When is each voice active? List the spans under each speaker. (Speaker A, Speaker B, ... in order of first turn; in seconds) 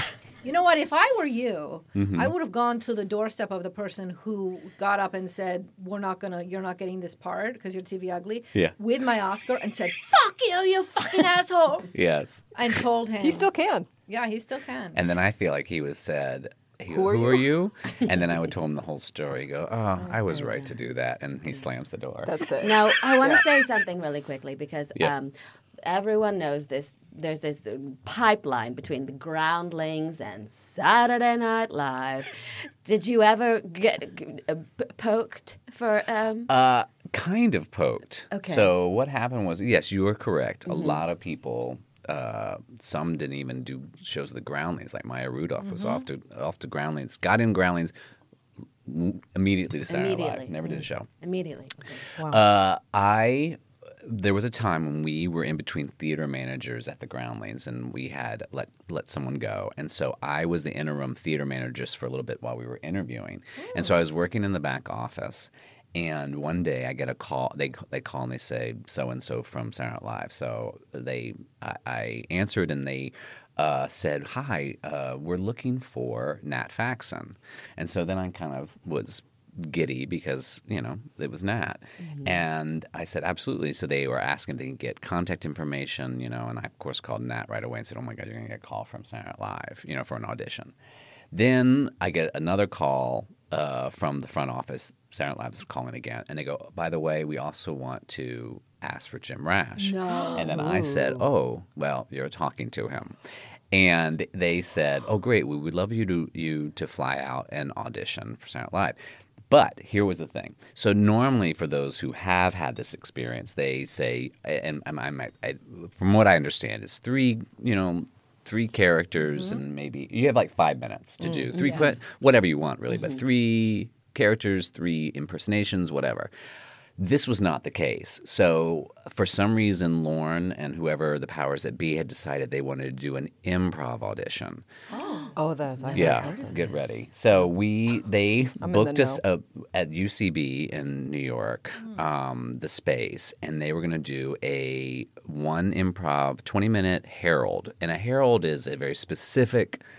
Speaker A: 0.4-11.9, 12.5-13.5, 14.1-15.0, 45.7-46.0, 99.8-100.6, 134.9-135.3
Speaker B: 1.9-2.3, 11.9-12.5, 14.9-22.3, 36.5-47.9, 48.8-51.1, 52.2-90.7, 91.3-103.2, 103.7-109.0, 109.5-126.3, 127.0-134.7, 135.9-149.8
Speaker C: 13.2-13.9, 16.9-17.4, 22.2-23.4, 52.2-52.4, 121.3-121.6, 135.3-137.0, 138.6-139.2
Speaker D: 20.3-20.7, 22.6-36.5, 38.3-38.7, 40.7-41.0, 49.9-52.0, 121.5-122.0, 135.9-136.7